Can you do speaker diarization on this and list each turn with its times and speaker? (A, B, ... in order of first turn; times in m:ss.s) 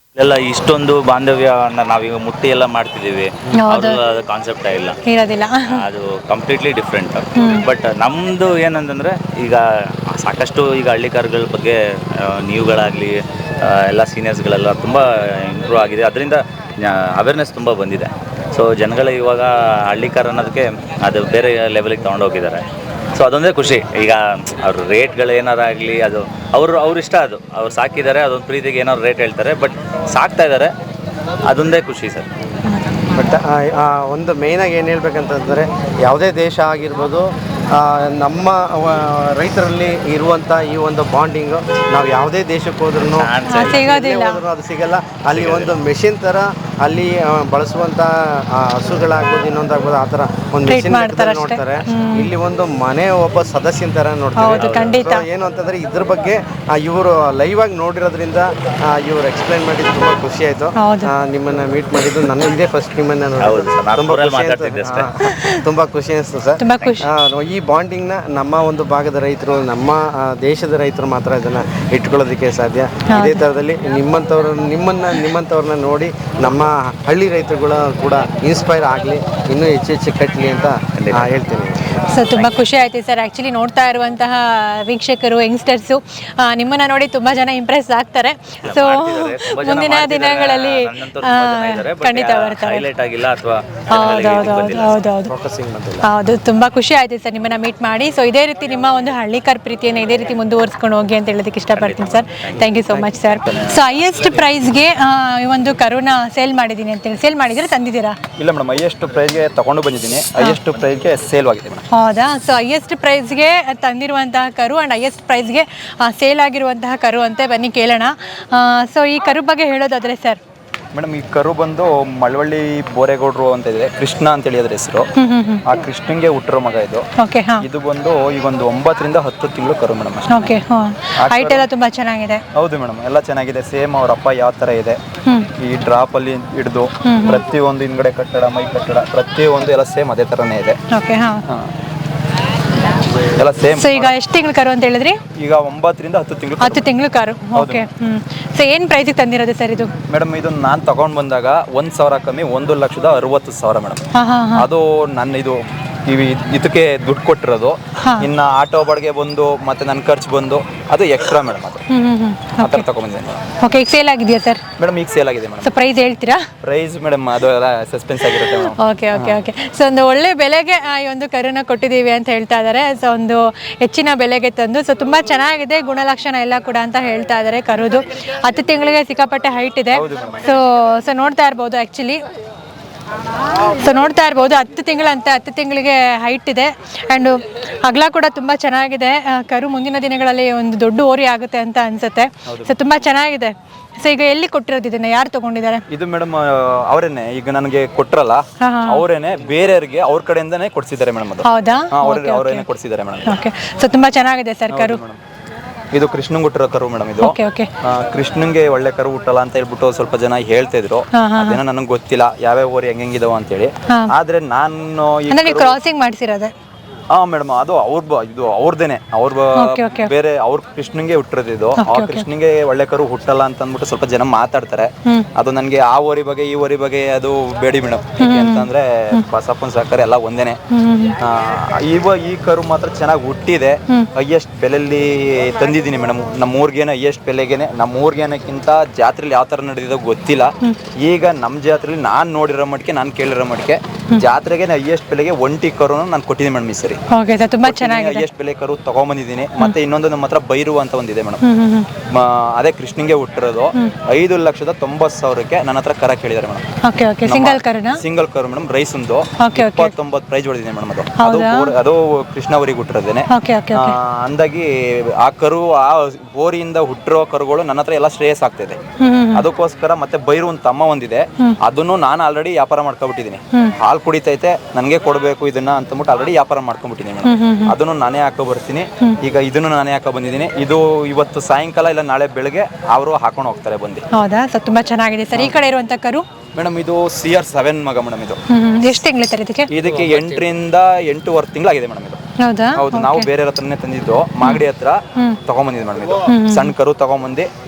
0:00.2-0:05.0 A
0:03.6-0:04.0 B
0:05.1-0:05.8 B
0:05.7-0:11.8 A
0:07.4-0:07.6 B
0:12.4-0:22.6 A
0:23.2-0:30.7 A
0:31.5-0:32.3 A
0:33.1-1:22.0 C
0:43.2-0:43.9 A
0:43.5-0:44.4 B
0:45.3-0:45.7 A
0:50.7-0:52.3 B
0:54.4-0:55.2 B
0:54.5-0:54.9 A
1:00.8-1:01.1 B
1:03.4-1:05.1 A
1:05.2-1:05.6 B
1:06.6-1:07.1 B
1:13.1-1:13.5 B
1:21.0-1:21.3 A
1:22.1-1:32.8 B
1:28.6-1:35.0 A
1:33.9-1:35.3 B
1:35.3-1:36.1 C
1:36.0-1:48.2 B
1:41.8-1:42.7 A
1:42.7-1:43.0 C
1:43.2-1:43.8 A
1:48.4-1:51.8 D
1:51.9-2:00.4 B
2:00.9-2:05.1 D
2:05.2-2:05.6 B
2:05.7-2:07.0 D
2:07.2-2:07.6 B
2:07.6-2:10.5 D
2:10.3-2:12.4 B
2:11.2-2:11.7 D
2:12.5-2:15.0 D
2:15.6-2:20.8 D
2:17.0-2:17.4 B
2:20.9-2:21.4 B
2:23.2-2:24.1 D
2:23.7-2:25.2 B
2:25.4-2:26.9 D
2:26.6-2:29.9 B
2:27.6-2:27.9 D
2:30.1-2:34.0 D
2:34.1-2:34.7 B
2:34.6-2:41.8 D
2:38.0-2:38.3 B
2:41.9-2:42.8 B
2:42.6-2:43.4 D
2:43.6-2:44.6 B
2:44.8-2:45.7 D
2:45.6-2:46.4 B
2:46.6-2:49.4 D
2:48.4-3:02.2 B
2:59.9-3:00.5 D
3:03.6-3:15.8 B
3:12.5-3:12.8 D
3:15.9-3:23.4 D
3:18.6-3:19.0 B
3:21.4-3:22.7 B
3:23.3-3:25.0 B
3:24.7-3:25.2 D
3:25.9-3:35.8 D
3:27.2-3:27.7 B
3:31.2-3:31.6 B
3:35.3-3:36.5 B
3:37.1-3:50.6 D
3:39.6-3:40.1 B
3:41.8-3:42.3 B
3:48.2-3:49.2 B
3:50.7-3:51.2 B
3:51.2-4:07.0 D
4:07.1-4:08.2 B
4:07.6-4:11.4 D
4:11.4-4:11.9 B
4:12.1-4:16.6 D
4:16.8-4:18.0 B
4:17.2-4:28.8 D
4:19.4-4:19.9 B
4:21.2-4:21.7 B
4:23.3-4:24.0 B
4:29.0-4:29.5 B
4:29.3-4:44.0 D
4:37.2-4:37.7 B
4:44.1-4:46.2 B
4:46.6-4:48.4 D
4:48.5-4:49.7 B
4:49.7-4:52.2 D
4:52.4-4:53.3 B
4:52.8-4:57.5 D
4:56.3-4:56.7 B